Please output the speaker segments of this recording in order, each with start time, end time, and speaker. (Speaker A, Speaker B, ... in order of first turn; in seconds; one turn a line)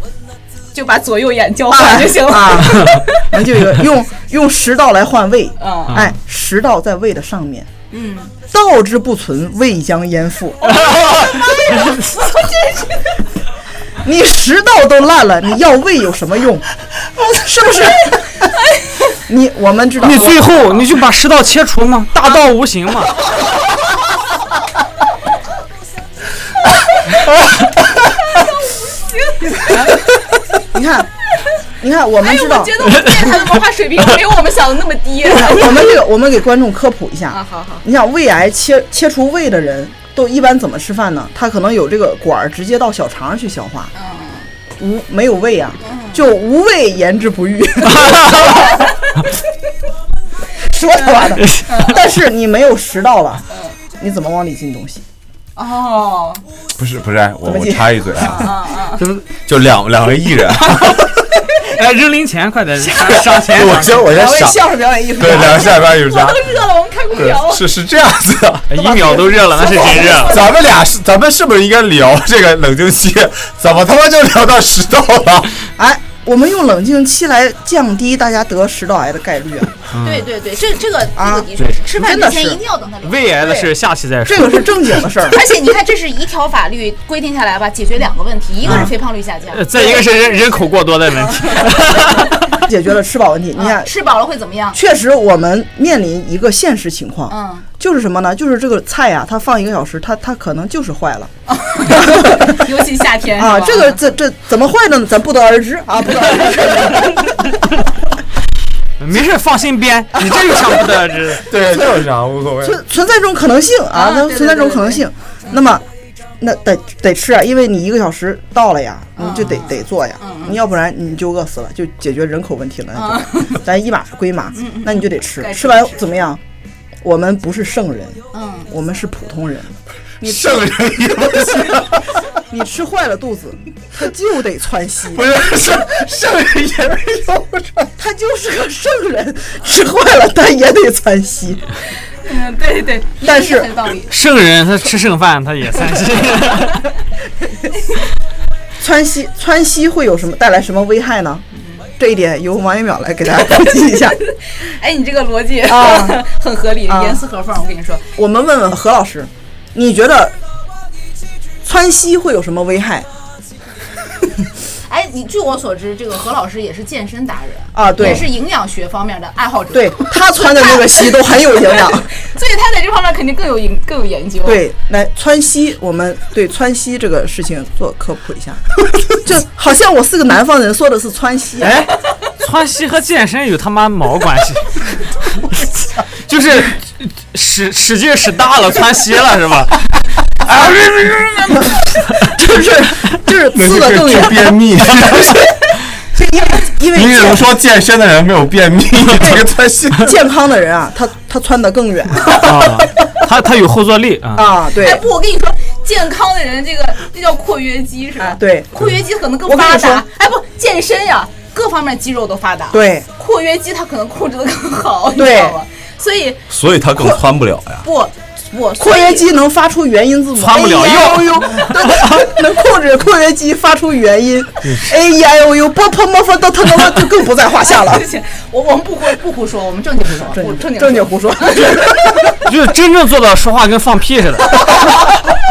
Speaker A: 0.7-3.3
Speaker B: 1.7-7.7
Speaker A: 5.6-6.0
Speaker C: 5.9-6.2
Speaker A: 7.9-8.3
Speaker B: 8.5-11.0
Speaker A: 10.6-13.2
Speaker B: 14.0-16.7
Speaker B: 17.2-18.3
Speaker B: 19.3-20.5
Speaker C: 20.0-23.1
Speaker A: 28.4-29.9
Speaker B: 30.6-31.1
Speaker B: 31.8-33.0
Speaker A: 32.2-35.9
Speaker B: 35.3-43.9
Speaker A: 37.3-37.8
Speaker A: 44.0-44.5
Speaker B: 44.8-48.9
Speaker A: 45.8-46.2
Speaker A: 48.6-48.9
Speaker B: 50.6-53.5
Speaker A: 51.0-52.0
Speaker A: 53.5-53.8
Speaker B: 54.0-55.0
Speaker A: 55.6-56.4
Speaker D: 56.8-58.5
Speaker B: 57.5-58.3
Speaker A: 58.2-59.0
Speaker C: 59.0-59.3
Speaker D: 59.5-61.1
Speaker C: 61.6-64.1
Speaker D: 62.9-66.5
Speaker B: 64.1-65.8
Speaker A: 65.6-67.6
Speaker D: 67.1-68.7
Speaker C: 68.7-70.4
Speaker B: 68.7-70.5
Speaker D: 70.2-75.5
Speaker B: 75.8-79.8
Speaker C: 79.9-80.2
Speaker A: 80.0-83.7
Speaker B: 81.2-82.6
Speaker C: 83.0-84.8
Speaker B: 84.2-85.4
Speaker A: 85.2-90.0
Speaker B: 88.6-88.9
Speaker C: 88.7-88.9
Speaker C: 89.5-92.6
Speaker B: 92.5-93.9
Speaker A: 93.5-94.8
Speaker B: 94.7-101.3
Speaker A: 97.3-97.7
Speaker A: 101.5-104.0
Speaker B: 101.8-102.7
Speaker B: 103.4-107.4
Speaker C: 109.0-112.0
Speaker B: 110.2-110.8
Speaker D: 111.5-112.8
Speaker B: 112.6-115.8
Speaker A: 113.9-115.6
Speaker B: 116.4-126.4
Speaker A: 119.2-120.6
Speaker A: 123.0-123.6
Speaker A: 124.6-126.2
Speaker B: 127.0-135.2
Speaker A: 128.3-128.7
Speaker D: 130.2-132.1
Speaker D: 135.1-137.7
Speaker B: 137.5-141.7
Speaker A: 142.2-144.1
Speaker B: 143.2-143.8
Speaker C: 144.1-146.9
Speaker B: 148.8-151.4
Speaker A: 151.5-151.8
Speaker B: 152.0-154.2
Speaker A: 154.1-158.2
Speaker B: 155.7-156.2
Speaker B: 156.9-157.2
Speaker B: 158.2-160.4
Speaker B: 161.6-163.1
Speaker A: 164.7-174.6
Speaker B: 167.8-168.3
Speaker B: 169.7-172.1
Speaker B: 174.4-181.8
Speaker C: 181.6-185.6
Speaker C: 186.2-189.8
Speaker D: 190.5-191.6
Speaker C: 190.5-192.3
Speaker B: 192.2-194.6
Speaker D: 193.5-195.5
Speaker B: 196.1-197.4
Speaker D: 196.9-200.2
Speaker B: 199.2-202.9
Speaker C: 202.3-204.5
Speaker B: 204.3-205.0
Speaker A: 204.7-216.4
Speaker B: 208.2-208.9
Speaker B: 209.4-210.0
Speaker B: 212.7-213.1
Speaker B: 215.2-215.6
Speaker D: 216.5-217.9
Speaker A: 217.8-219.3
Speaker B: 218.8-228.1
Speaker C: 220.4-222.4
Speaker A: 221.0-221.7
Speaker C: 224.6-225.0
Speaker A: 227.6-231.9
Speaker B: 230.2-232.5
Speaker C: 232.4-234.9
Speaker B: 234.6-235.0